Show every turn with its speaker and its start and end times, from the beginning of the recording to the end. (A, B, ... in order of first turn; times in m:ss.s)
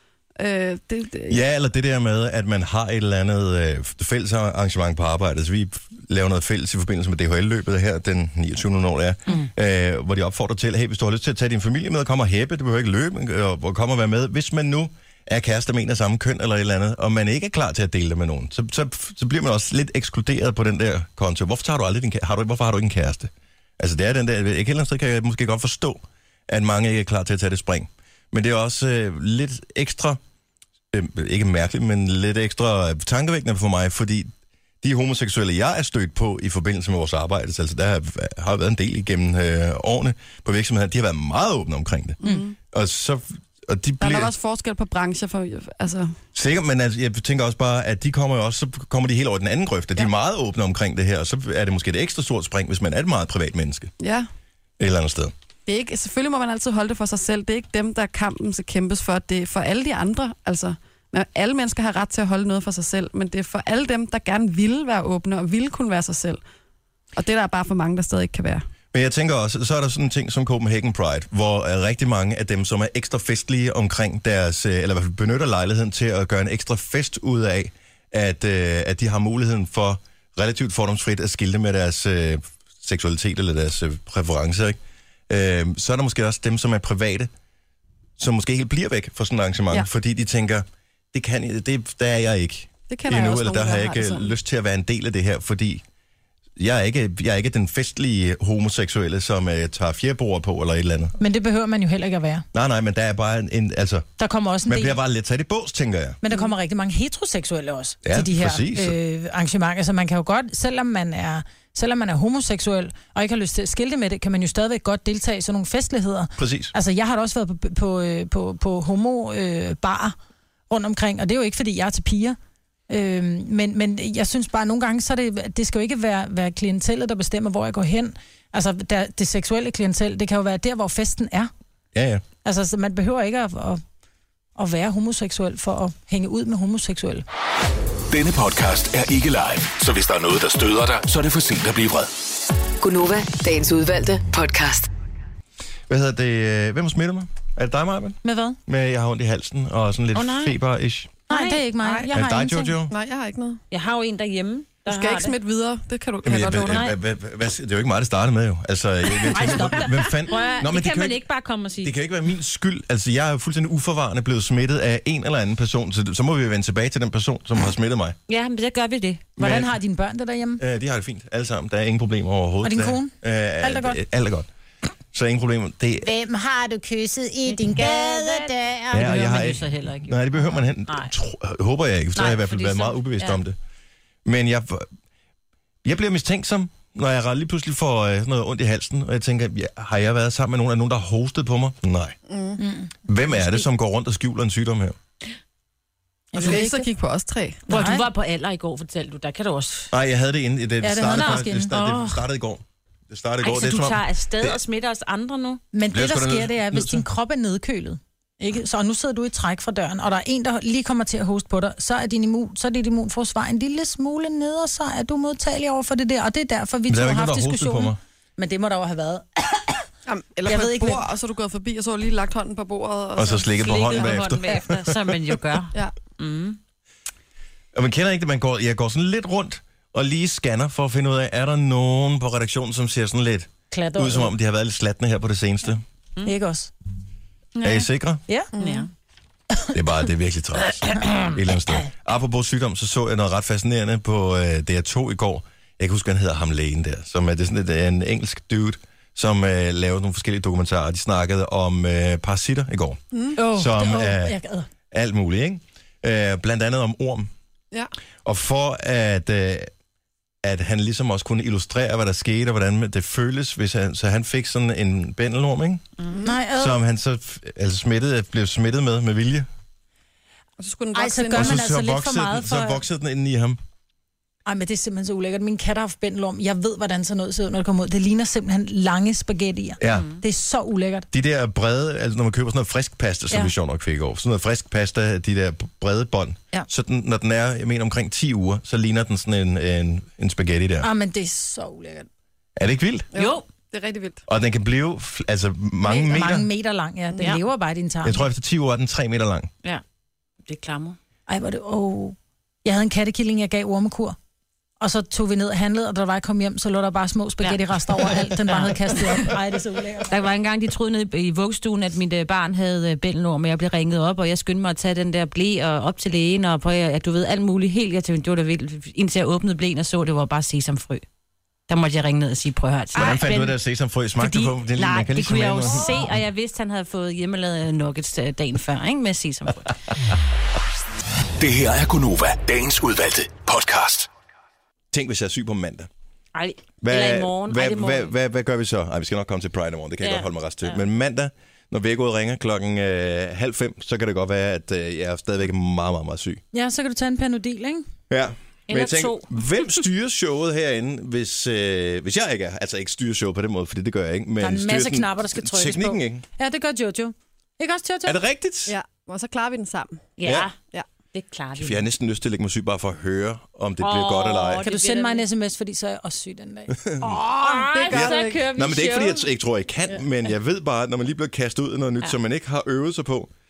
0:00.4-0:01.4 A
0:01.3-0:30.2 B
0:30.9-0:34.3 B
0:34.8-0:44.3 B
0:42.2-0:42.6 A
0:44.0-0:46.2 A
0:46.3-0:53.9 B
0:54.0-0:54.3 A
0:54.8-0:55.3 B
0:55.7-1:06.4 A
1:07.2-1:08.6 A
1:08.9-1:27.3 B
1:28.2-1:35.8 B
1:32.9-1:34.3 A
1:36.6-1:41.2 B
1:41.2-1:42.5 C
1:42.5-1:44.1 B
1:44.2-1:45.0 C
1:44.7-1:46.2 B
1:46.2-2:00.2 C
1:48.0-1:49.0 B
1:56.4-1:56.7 B
2:00.7-2:02.4 C
2:02.9-2:11.5 C
2:11.9-2:12.2 B
2:12.4-2:13.8 C
2:14.6-2:17.2 C
2:18.1-2:22.1 D
2:22.8-2:24.9 E
2:25.9-2:31.2 B
2:28.2-2:28.6 C
2:30.1-2:30.6 F
2:31.3-2:32.1 F
2:31.3-2:32.8 C
2:32.1-2:32.9 B
2:32.9-2:33.6 A
2:33.7-2:35.4 F
2:34.8-2:36.9 A
2:36.2-2:41.3 B
2:36.6-2:36.9 F
2:39.1-2:41.9 F
2:41.8-2:48.2 B
2:48.3-2:49.3 F
2:49.4-2:50.6 C
2:49.4-2:49.7 B
2:50.6-2:54.5 B
2:52.6-2:54.0 C
2:55.1-2:56.2 B
2:56.2-2:58.8 C
2:57.5-3:01.1 F
2:58.9-3:03.6 B
3:02.2-3:03.4 F
3:04.2-3:04.9 B
3:05.8-3:12.2 B
3:12.3-3:12.6 A
3:12.6-3:12.9 C
3:13.1-3:15.0 B
3:13.3-3:13.6 F
3:16.3-3:16.8 C
3:16.4-3:17.6 A
3:16.4-3:16.6 F
3:17.7-3:19.9 F
3:17.7-3:18.1 C
3:19.9-3:24.6 B
3:20.8-3:22.2 C
3:21.0-3:22.0 F
3:23.4-3:25.6 F
3:25.7-3:39.8 C
3:25.9-3:27.0 B
3:36.9-3:38.0 B
3:40.1-3:44.6 A
3:40.5-3:41.0 C
3:43.2-3:45.4 B
3:43.5-3:46.6 F
3:45.7-3:46.0 A
3:47.7-3:55.8 B
3:53.7-3:54.3 C
3:56.2-3:56.7 C
3:57.6-3:57.9 A
3:57.6-3:58.2 B
3:58.3-3:58.5 C
3:58.6-3:58.9 A
3:58.6-3:58.9 F
3:59.7-4:14.4 B
4:13.4-4:14.7 C
4:14.9-4:17.3 B
4:18.2-4:19.7 B
4:20.4-4:25.9 B
4:26.2-4:26.8 C
4:26.5-4:29.5 B
4:30.6-4:31.6 A
4:30.9-4:32.8 C
4:31.3-4:33.6 B
4:34.4-4:41.1 C
4:39.8-4:40.1 B
4:39.9-4:40.2 F
4:41.1-4:50.9 B
4:50.8-4:52.1 C
4:52.6-4:53.1 B
4:53.1-4:54.2 A
4:53.1-4:53.5 F
4:54.3-4:56.5 B
4:55.8-4:58.2 C
4:58.0-4:59.5 B
5:00.5-5:01.0 F
5:01.3-5:04.2 C
5:04.8-5:10.2 C
5:07.4-5:09.3 F
5:10.1-5:21.0 F
5:21.7-5:23.6 F
5:22.9-5:26.1 B
5:24.2-5:29.7 F
5:31.4-5:34.1 D
5:34.9-5:35.9 B
5:36.3-5:38.1 F
5:36.8-5:46.4 B
5:40.0-5:40.8 F
5:46.5-5:47.9 C
5:48.1-5:56.2 B
5:48.7-5:49.3 F
5:54.4-5:58.2 C
5:58.0-5:58.8 B
5:58.7-6:00.1 A
6:00.2-6:00.6 F
6:00.2-6:00.5 B
6:01.1-6:01.8 F
6:01.6-6:04.7 B
6:03.8-6:05.2 F
6:04.6-6:07.4 C
6:06.7-6:07.2 B
6:07.3-6:09.2 F
6:07.4-6:08.5 A
6:07.9-6:13.3 B